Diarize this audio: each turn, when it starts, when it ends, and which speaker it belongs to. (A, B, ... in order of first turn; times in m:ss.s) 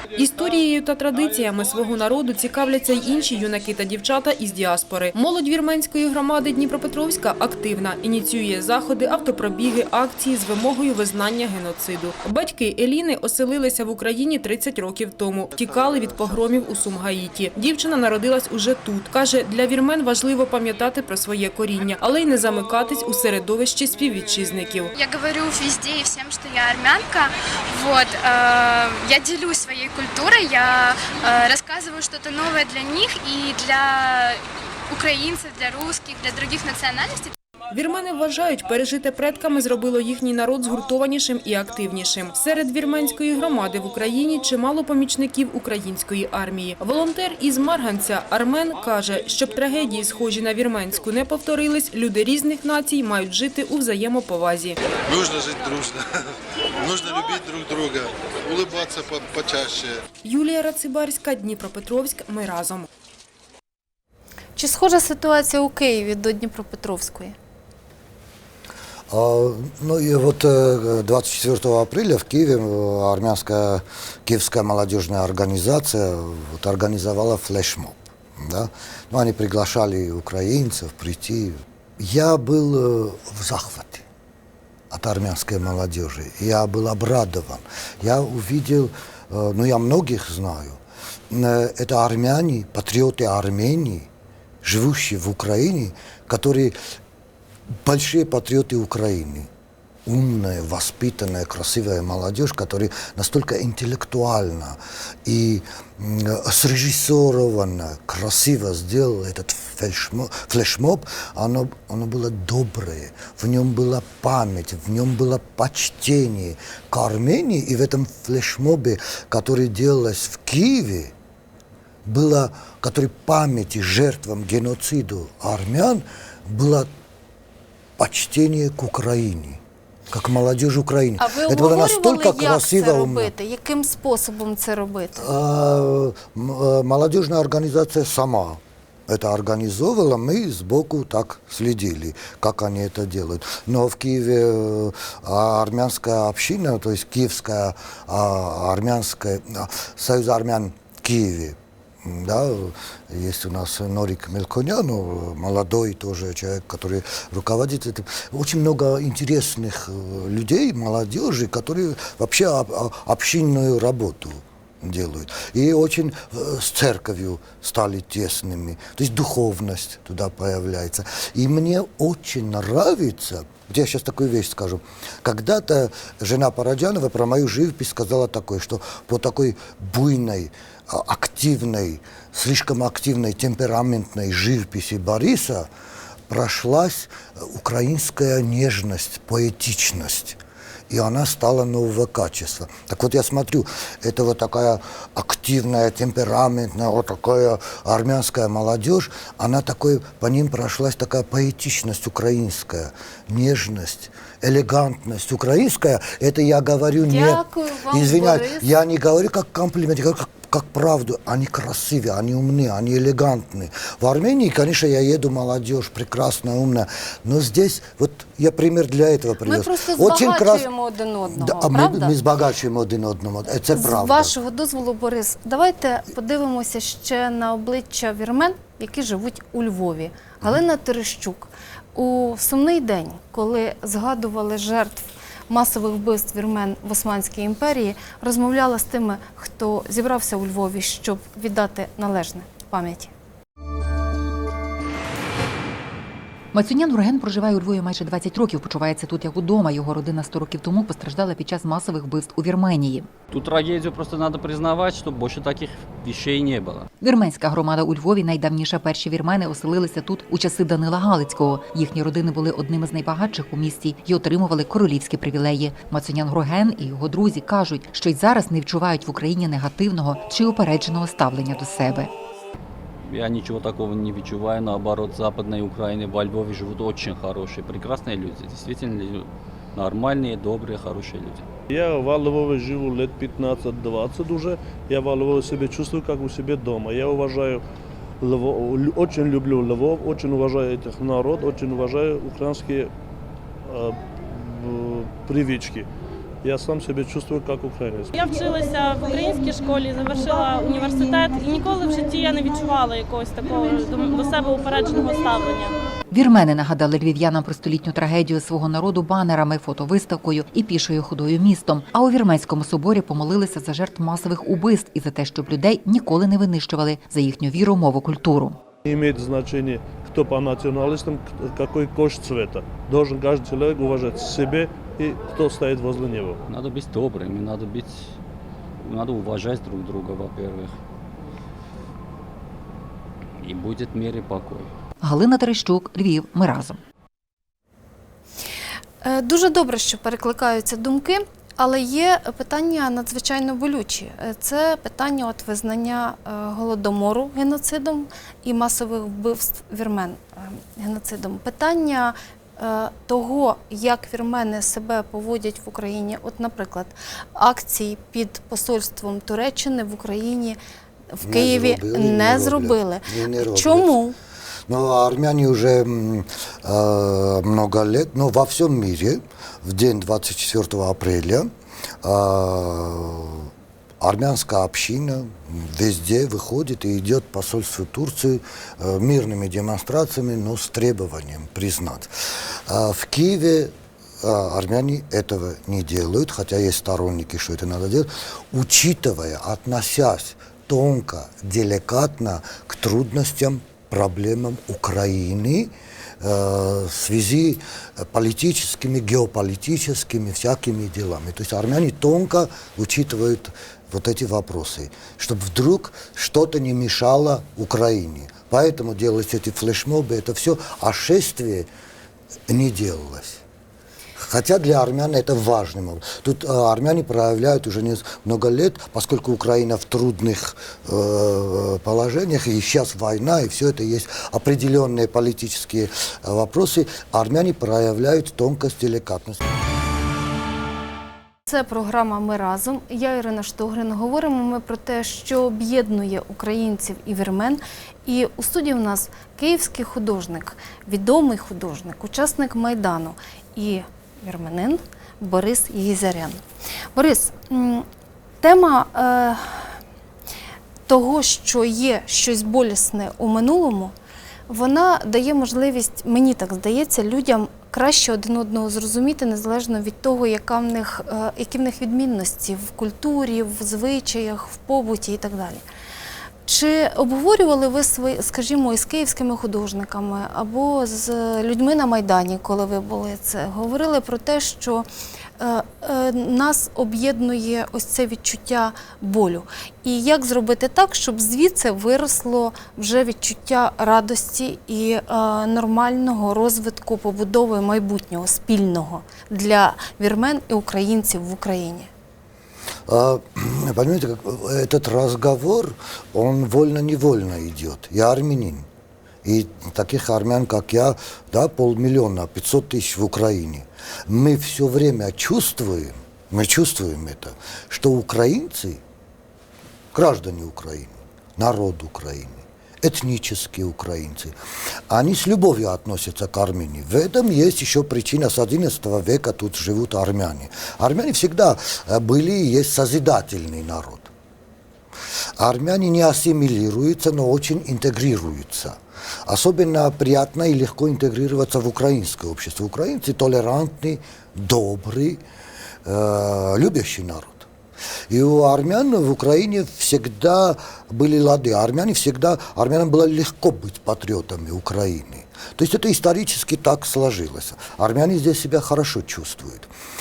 0:00.2-0:24.9 A
0:24.9-0:37.3 B
0:37.7-0:54.8 A
0:55.1-0:56.2 C
0:56.8-1:00.0 C
1:00.2-1:02.8 A
1:04.6-1:07.3 D
1:09.1-1:24.0 E
1:24.9-1:34.1 E
1:34.6-1:36.8 E
1:37.8-1:39.5 E
1:40.0-2:01.1 E
2:02.0-2:06.9 E
2:08.0-2:13.3 E
2:11.2-2:15.2 D
2:15.2-3:05.7 E
3:06.3-3:40.7 E
3:27.0-3:28.7 D
3:39.4-3:42.1 D
3:41.3-3:44.3 E
3:43.7-4:03.1 D
4:06.5-4:13.1 F
4:13.3-4:16.9 G
4:17.0-4:32.1 F
4:33.0-4:41.4 G
4:41.7-4:47.6 H
4:48.2-4:52.9 H
4:53.6-4:55.9 H
4:56.4-4:58.1 H
4:58.1-5:05.8 I
5:06.1-5:18.6 F
5:18.8-5:26.4 H
5:26.5-5:28.1 G
5:28.8-5:30.7 G
5:33.4-5:34.7 G
5:35.0-5:36.8 F
5:39.0-6:00.6 D
6:01.1-6:04.1 D
6:01.2-6:03.9 E
6:04.7-6:11.5 E
6:12.0-6:51.7 E
6:52.5-6:53.4 E
6:54.2-7:09.4 E
7:11.4-7:26.4 D
7:26.9-7:27.8 D
7:28.4-7:29.7 D
7:30.9-7:33.9 D
7:34.5-7:45.6 D
7:46.4-7:54.8 D
7:55.4-8:11.9 D
8:12.9-8:18.7 E
8:19.2-8:28.8 E
8:29.9-8:34.3 E
8:34.9-8:44.1 E
8:45.4-8:55.2 E
8:55.8-8:57.5 E
8:58.1-9:09.7 E